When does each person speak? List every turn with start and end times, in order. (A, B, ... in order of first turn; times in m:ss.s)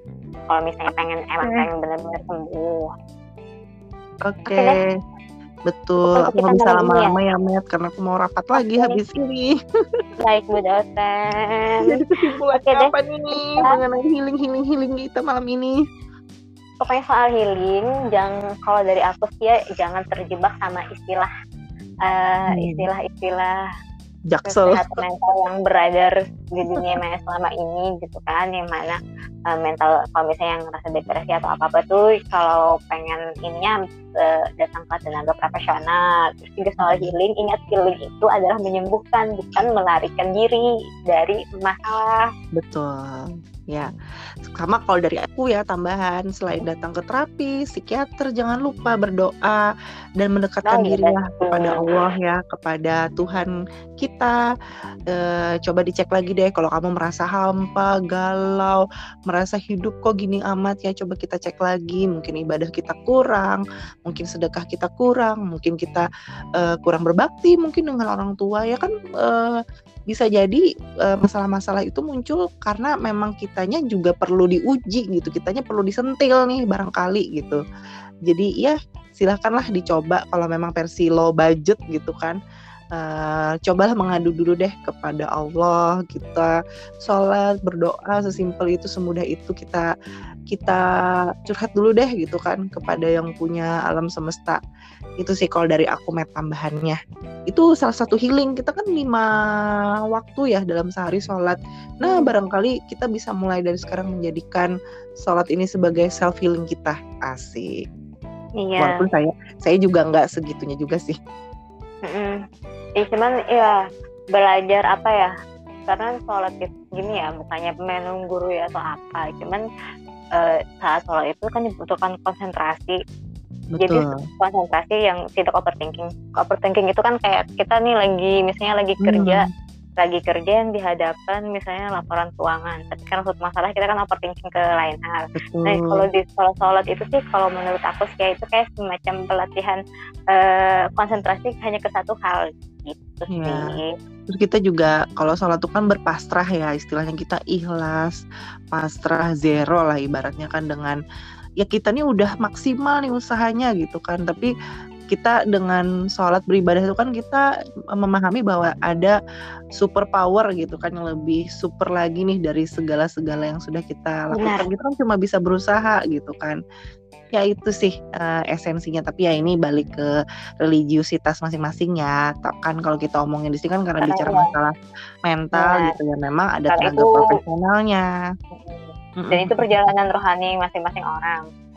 0:00.5-0:02.9 A
0:01.4-0:01.6 B
0:04.2-0:04.9 B
0:04.5-0:04.8 A
0:05.7-0:09.6 B
0:06.0-0:07.1 A
0:08.6-0:09.0 A
0:10.2-0:12.0 A
0:11.8-0:15.8 B
0:12.5-0:13.8 A
0:16.8-0:21.3 A
0:22.1-0:23.5 A
0:22.5-0:22.8 B
0:24.3-0:25.0 B
0:24.4-0:29.0 A
0:29.5-0:42.3 A
0:36.8-0:37.1 B
0:42.5-0:43.9 B
0:44.4-0:49.6 B
0:50.2-0:54.4 B
0:50.6-0:51.9 A
0:55.1-1:06.0 B
1:06.6-1:09.6 B
1:10.1-1:17.6 B
1:18.3-1:22.4 B
1:23.0-1:26.5 B
1:27.0-1:29.9 B
1:30.5-1:30.8 B
1:31.4-1:34.6 B
1:35.2-1:37.0 B
1:37.5-1:39.3 B
1:40.1-1:44.7 B
1:42.0-1:42.3 A
1:45.2-1:47.7 B
1:48.6-1:49.0 A
1:48.8-1:51.2 B
1:52.0-1:52.4 A
1:53.0-1:53.8 A
1:54.3-1:55.3 A
1:55.9-1:59.6 A
2:00.4-2:03.0 A
2:03.7-2:04.2 B
2:03.8-2:23.9 A
2:09.0-2:09.4 B
2:15.4-2:16.0 B
2:23.3-2:23.7 B
2:24.3-2:28.2 B
2:28.7-2:31.0 B
2:31.6-2:34.5 B
2:35.1-2:37.4 B
2:38.0-2:39.2 B
2:39.8-2:46.6 B
2:44.3-2:44.7 A
2:47.3-2:50.1 B
2:50.6-2:54.7 B
2:54.0-2:54.5 A
2:55.2-2:58.0 B
2:55.6-2:55.9 A
2:56.7-2:57.3 A
2:58.5-3:01.4 A
2:59.2-2:59.9 B